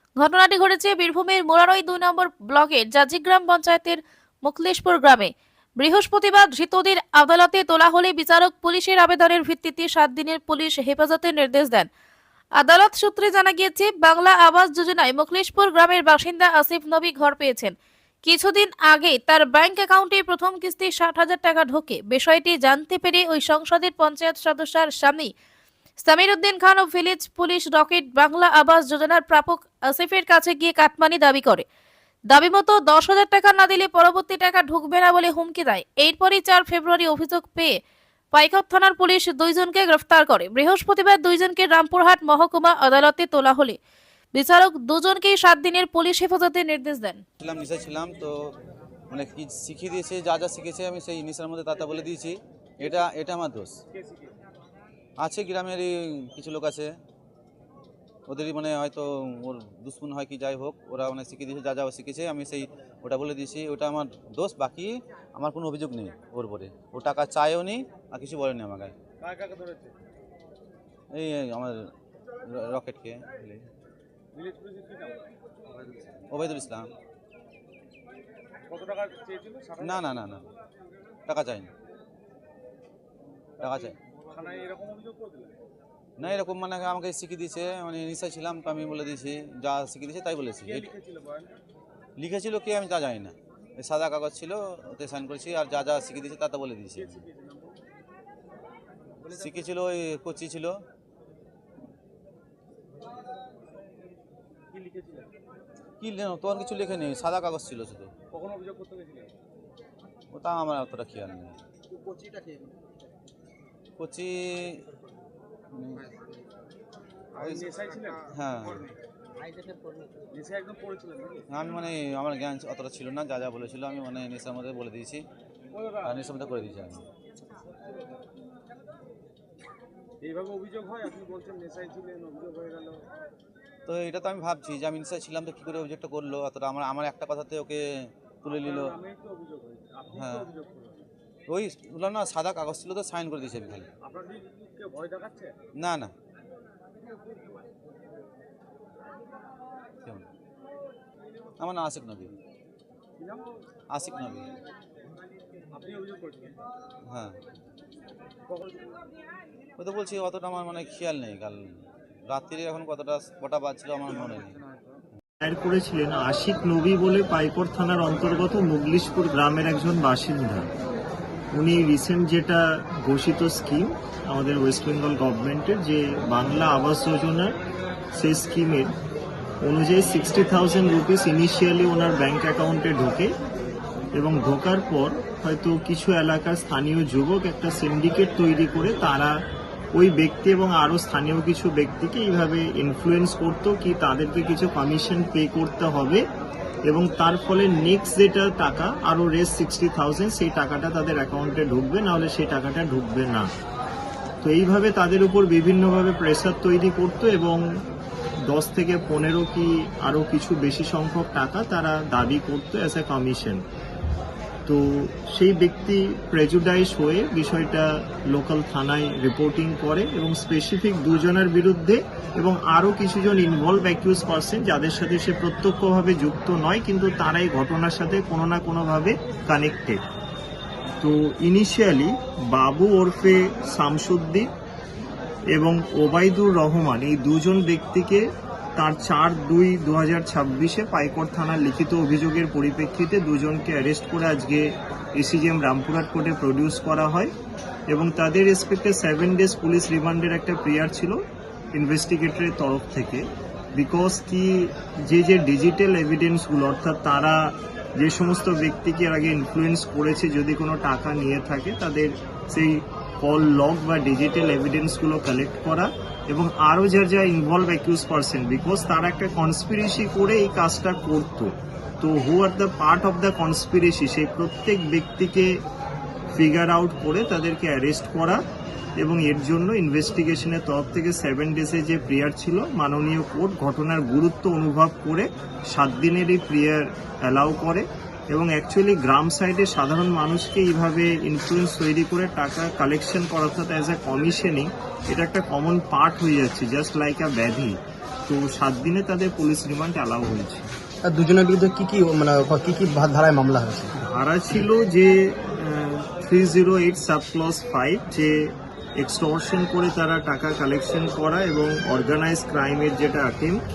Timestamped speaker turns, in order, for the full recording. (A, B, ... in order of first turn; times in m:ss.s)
0:00.2-0:11.9 A
0:12.6-0:25.3 A
0:26.0-0:31.6 A
0:32.3-0:37.7 A
0:38.3-0:43.8 A
0:44.3-0:47.2 A
0:47.4-0:48.3 B
0:49.1-0:53.8 B
0:53.9-0:54.3 C
0:55.2-0:56.9 B
0:58.3-1:08.9 B
1:09.2-1:09.9 C
1:11.1-1:11.8 B
1:12.5-1:13.7 B
1:14.3-1:15.3 C
1:16.3-1:16.9 B
1:18.7-1:20.3 C
1:19.8-1:20.5 B
1:21.3-1:21.7 B
1:23.6-1:24.0 B
1:23.6-1:25.6 C
1:26.2-1:30.9 B
1:30.6-1:31.5 C
1:32.2-1:37.2 B
1:36.9-1:37.8 C
1:39.3-1:40.7 B
1:44.7-1:45.3 C
1:46.0-1:48.1 B
1:48.3-1:49.3 C
1:50.3-1:51.6 B
1:54.0-1:54.7 B
1:55.7-1:56.1 B
1:57.4-1:58.2 C
1:58.3-1:58.9 B
2:00.3-2:01.5 C
2:01.5-2:05.2 B
2:05.7-2:06.2 C
2:06.0-2:07.0 B
2:10.2-2:13.0 C
2:13.9-2:17.8 B
2:18.4-2:19.0 B
2:18.5-2:21.1 C
2:20.1-2:20.5 B
2:21.5-2:23.9 B
2:24.0-2:25.6 C
2:25.8-2:26.1 B
2:31.6-2:32.3 B
2:33.9-2:34.5 B
2:35.7-2:36.6 C
2:37.1-2:37.3 B
2:38.5-2:38.8 C
2:39.8-2:44.6 B
2:45.4-2:50.7 D
2:51.5-2:57.6 D
2:58.2-2:59.0 D
2:59.6-3:03.3 D
3:04.2-3:09.3 D
3:09.9-3:16.2 D
3:16.9-3:23.5 D
3:24.4-3:27.6 D
3:28.4-3:33.6 D
3:34.7-3:50.0 D
3:51.0-3:54.5 D
3:55.6-3:58.2 D
3:58.8-4:07.3 D
4:07.9-4:11.2 D
4:11.7-4:35.5 D
4:36.3-4:38.4 D
4:39.0-5:00.7 D
5:01.0-5:03.9 E
5:04.0-5:13.6 D